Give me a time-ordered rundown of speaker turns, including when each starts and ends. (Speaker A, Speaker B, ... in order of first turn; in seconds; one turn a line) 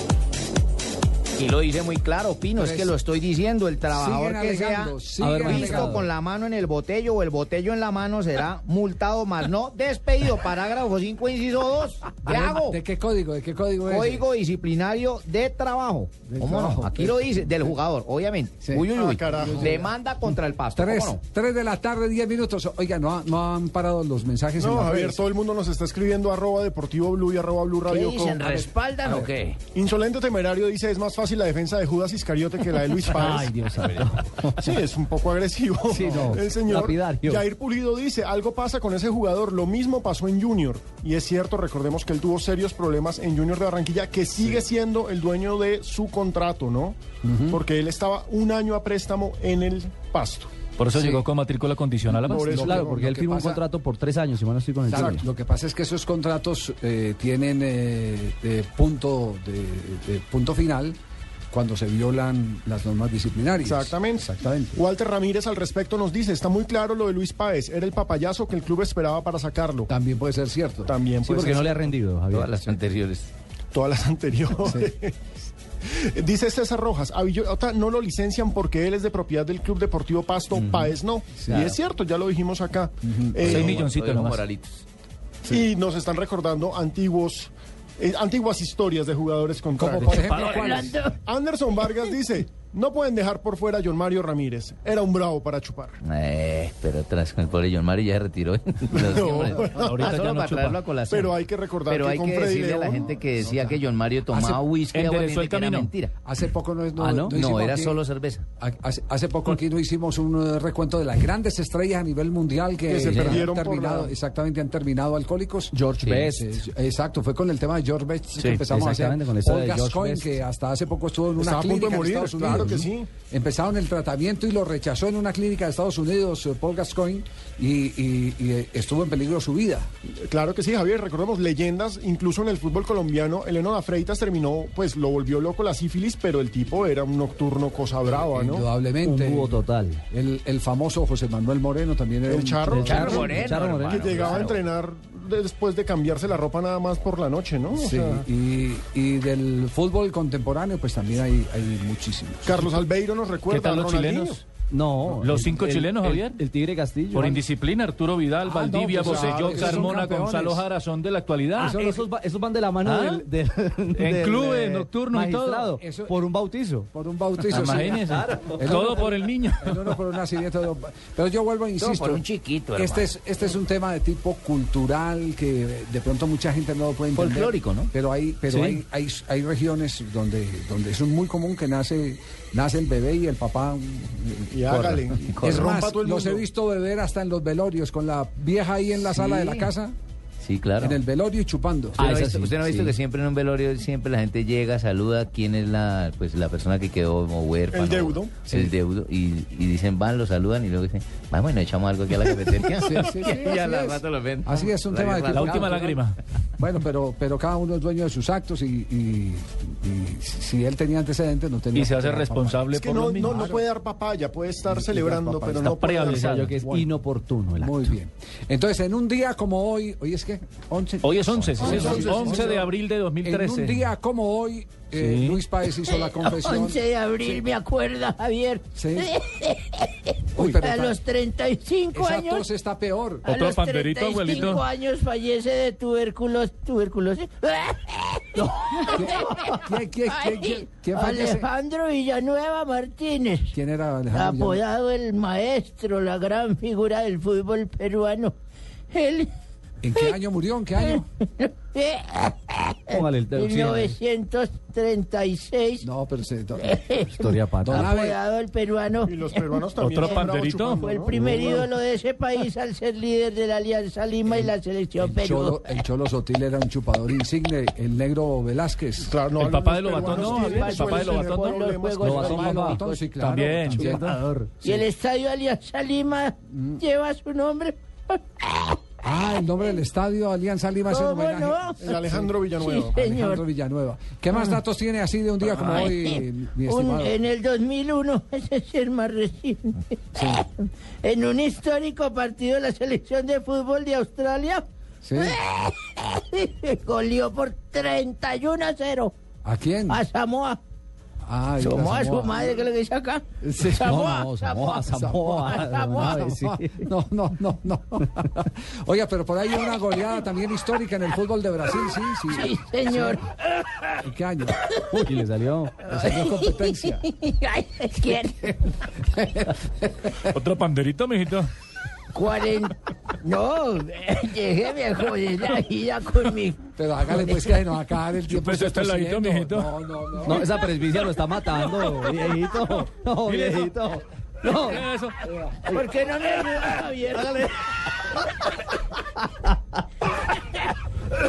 Speaker A: 1.4-12.8
Speaker B: 2.6-3.0
Speaker B: 3.9-6.1
Speaker C: 5.2-6.1
Speaker B: 12.2-14.2
Speaker A: 13.9-21.2
Speaker B: 16.3-17.7
Speaker B: 18.6-25.2
Speaker D: 18.8-19.8
Speaker D: 24.6-28.5
Speaker A: 27.9-29.6
Speaker B: 28.4-29.3
Speaker D: 29.7-33.5
Speaker C: 33.1-34.7
Speaker D: 34.6-47.0
Speaker C: 35.9-37.5
Speaker B: 36.0-36.4
Speaker B: 47.2-47.6
Speaker D: 47.5-50.5
Speaker E: 50.8-52.7
Speaker B: 50.9-51.2
Speaker D: 52.2-52.9
Speaker B: 52.4-53.6
Speaker C: 52.6-55.2
Speaker B: 54.9-61.0
Speaker B: 61.5-64.8
Speaker D: 63.6-69.9
Speaker B: 69.9-70.9
Speaker D: 70.9-71.7
Speaker C: 71.2-72.7
Speaker A: 72.3-73.3
Speaker D: 73.7-75.2
Speaker D: 76.0-83.9
Speaker A: 80.6-80.9
Speaker B: 83.0-83.7
Speaker A: 83.5-84.8
Speaker E: 83.5-84.4
Speaker D: 85.5-90.5
Speaker B: 89.8-91.0
Speaker E: 90.1-90.9
Speaker F: 90.4-91.1
Speaker D: 91.2-96.0
Speaker A: 96.0-101.3
Speaker D: 98.9-100.1
Speaker E: 99.7-100.8
Speaker D: 101.1-103.2
Speaker A: 101.9-106.1
Speaker E: 104.5-105.9
Speaker B: 106.2-108.0
Speaker C: 107.0-107.4
Speaker A: 107.3-108.5
Speaker B: 108.6-129.9
Speaker D: 112.9-114.1
Speaker C: 115.7-116.6
Speaker C: 118.4-120.4
Speaker D: 121.4-123.1
Speaker D: 130.3-138.6
Speaker B: 138.1-143.3
Speaker C: 139.0-140.0
Speaker D: 142.3-148.2
Speaker C: 142.7-144.5
Speaker A: 142.8-144.6
Speaker B: 147.7-152.7
Speaker D: 152.4-154.4
Speaker E: 153.5-154.4
Speaker C: 154.7-157.4
Speaker E: 155.2-156.4
Speaker E: 157.1-161.8
Speaker B: 158.5-160.6
Speaker D: 158.7-159.9
Speaker C: 161.6-166.9
Speaker B: 161.6-162.0
Speaker E: 162.9-163.2
Speaker E: 164.0-165.8
Speaker B: 165.8-166.3
Speaker B: 166.9-168.0
Speaker E: 167.5-169.9
Speaker C: 167.7-168.9
Speaker B: 168.6-172.2
Speaker A: 171.8-173.1
Speaker B: 172.8-189.9
Speaker A: 177.2-177.9
Speaker C: 178.5-178.8
Speaker D: 184.5-186.4
Speaker A: 185.2-185.7
Speaker A: 190.4-191.0
Speaker B: 190.8-192.1
Speaker C: 192.0-192.9
Speaker A: 192.0-205.9
Speaker D: 197.7-198.4
Speaker B: 202.8-206.0
Speaker E: 205.3-206.2
Speaker B: 206.6-212.6
Speaker E: 211.8-213.5
Speaker D: 212.7-216.2
Speaker B: 213.2-213.6
Speaker B: 214.7-216.9
Speaker C: 215.6-217.9
Speaker E: 215.7-216.5
Speaker B: 217.6-222.6
Speaker E: 221.0-223.9
Speaker D: 221.6-222.6
Speaker B: 223.2-227.5
Speaker E: 225.0-225.4
Speaker F: 225.8-232.4
Speaker B: 228.8-229.1
Speaker B: 230.3-231.0
Speaker B: 231.9-233.2
Speaker F: 233.2-243.5
Speaker E: 233.3-234.6
Speaker B: 238.9-241.5
Speaker B: 243.5-244.6
Speaker F: 244.1-248.3
Speaker F: 248.9-249.3
Speaker B: 249.8-251.1
Speaker F: 250.8-255.8
Speaker C: 252.9-254.0
Speaker B: 255.8-257.0
Speaker F: 256.6-259.4
Speaker C: 257.2-257.9
Speaker B: 257.6-258.2
Speaker D: 259.1-261.6
Speaker E: 259.8-261.0
Speaker F: 260.0-265.6
Speaker B: 265.0-269.1
Speaker D: 269.1-272.5
Speaker E: 269.4-271.7
Speaker F: 270.0-272.9
Speaker C: 272.0-274.7
Speaker B: 272.1-274.2
Speaker E: 273.2-274.1
Speaker F: 274.6-278.8
Speaker B: 276.5-276.8
Speaker B: 279.0-282.3
Speaker F: 280.9-281.8
Speaker D: 281.8-283.0
Speaker F: 282.6-283.4
Speaker B: 282.9-287.2
Speaker F: 285.5-294.6
Speaker B: 290.1-290.4
Speaker B: 295.0-295.4
Speaker F: 295.2-299.1
Speaker B: 299.4-300.0
Speaker F: 299.9-300.6
Speaker B: 301.3-302.6
Speaker F: 301.6-304.9
Speaker C: 303.6-306.9
Speaker B: 303.6-304.0
Speaker B: 304.9-313.2
Speaker F: 305.4-306.2
Speaker F: 312.3-313.3
Speaker B: 314.0-315.0
Speaker C: 314.9-315.7
Speaker B: 315.9-317.0
Speaker F: 315.9-318.6
Speaker B: 319.1-320.1
Speaker E: 320.3-321.5
Speaker F: 322.1-326.6
Speaker B: 326.8-330.5
Speaker E: 328.3-329.7
Speaker C: 330.3-334.8
Speaker E: 333.3-333.7
Speaker E: 334.5-335.2
Speaker F: 335.7-337.5